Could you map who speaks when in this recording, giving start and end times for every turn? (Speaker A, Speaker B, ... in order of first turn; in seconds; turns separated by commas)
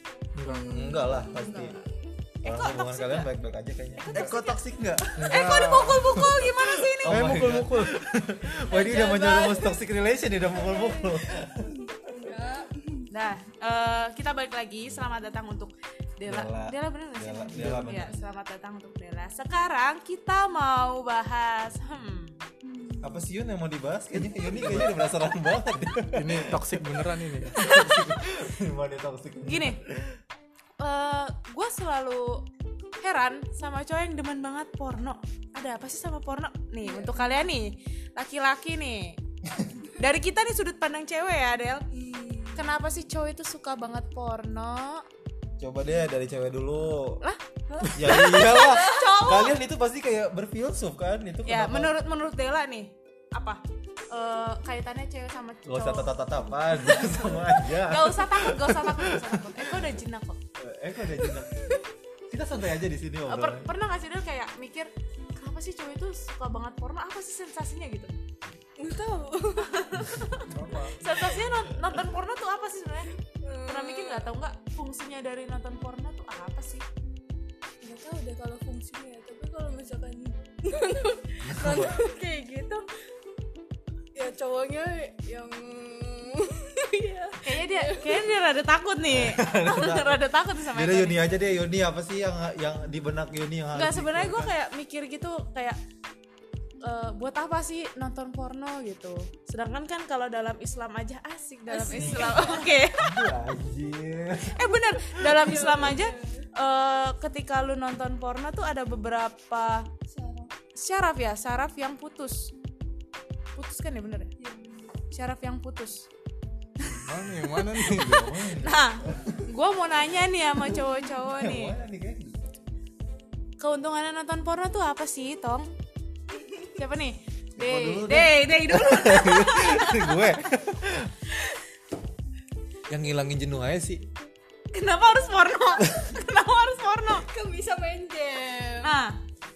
Speaker A: 0.3-1.0, Speaker B: 0.4-1.8, Speaker C: 0.7-1.8, Speaker D: 2.4-3.3, Speaker C: 2.4-11.7, Speaker D: 4.0-4.6, Speaker A: 5.2-6.3, Speaker D: 5.2-7.2, Speaker A: 7.0-7.9, Speaker D: 8.7-9.8, Speaker B: 10.5-13.1, Speaker D: 13.1-22.4, Speaker C: 16.2-18.2, Speaker A: 17.5-18.0, Speaker B: 22.6-23.2, Speaker C: 23.0-26.6, Speaker A: 26.1-27.6, Speaker C: 27.5-30.2, Speaker D: 27.6-28.1, Speaker D: 29.4-29.8, Speaker D: 30.8-32.5, Speaker D: 33.0-39.2, Speaker B: 36.8-37.4, Speaker D: 39.9-41.9, Speaker B: 41.9-42.7, Speaker D: 42.5-45.0, Speaker C: 45.6-47.2, Speaker D: 47.2-49.6, Speaker B: 47.8-49.2, Speaker C: 47.9-51.9, Speaker D: 51.5-60.4, Speaker C: 55.6-60.0, Speaker C: 60.6-61.8, Speaker B: 61.2-61.8, Speaker C: 62.3-63.7, Speaker D: 63.3-68.1, Speaker B: 68.8-70.4, Speaker D: 69.9-70.3, Speaker A: 70.4-71.0, Speaker D: 71.0-76.8, Speaker B: 73.4-74.3, Speaker B: 77.8-82.8, Speaker C: 81.4-82.0, Speaker B: 84.1-88.3, Speaker D: 87.4-91.2, Speaker C: 89.0-94.5, Speaker D: 93.7-95.8, Speaker D: 96.8-103.3, Speaker B: 101.7-102.7, Speaker C: 101.9-104.7, Speaker D: 104.5-109.9, Speaker B: 105.2-106.5, Speaker B: 110.1-110.5, Speaker D: 110.7-112.5, Speaker D: 113.5-114.3, Speaker B: 114.4-114.9, Speaker D: 115.1-116.1, Speaker A: 117.0-118.2, Speaker C: 117.8-119.5, Speaker D: 117.9-121.7, Speaker C: 121.3-122.5, Speaker D: 123.6-125.7, Speaker B: 126.3-126.8, Speaker D: 126.8-130.4, Speaker C: 127.6-131.2, Speaker C: 132.9-134.1, Speaker D: 134.7-137.2, Speaker B: 137.1-139.0, Speaker D: 138.8-139.2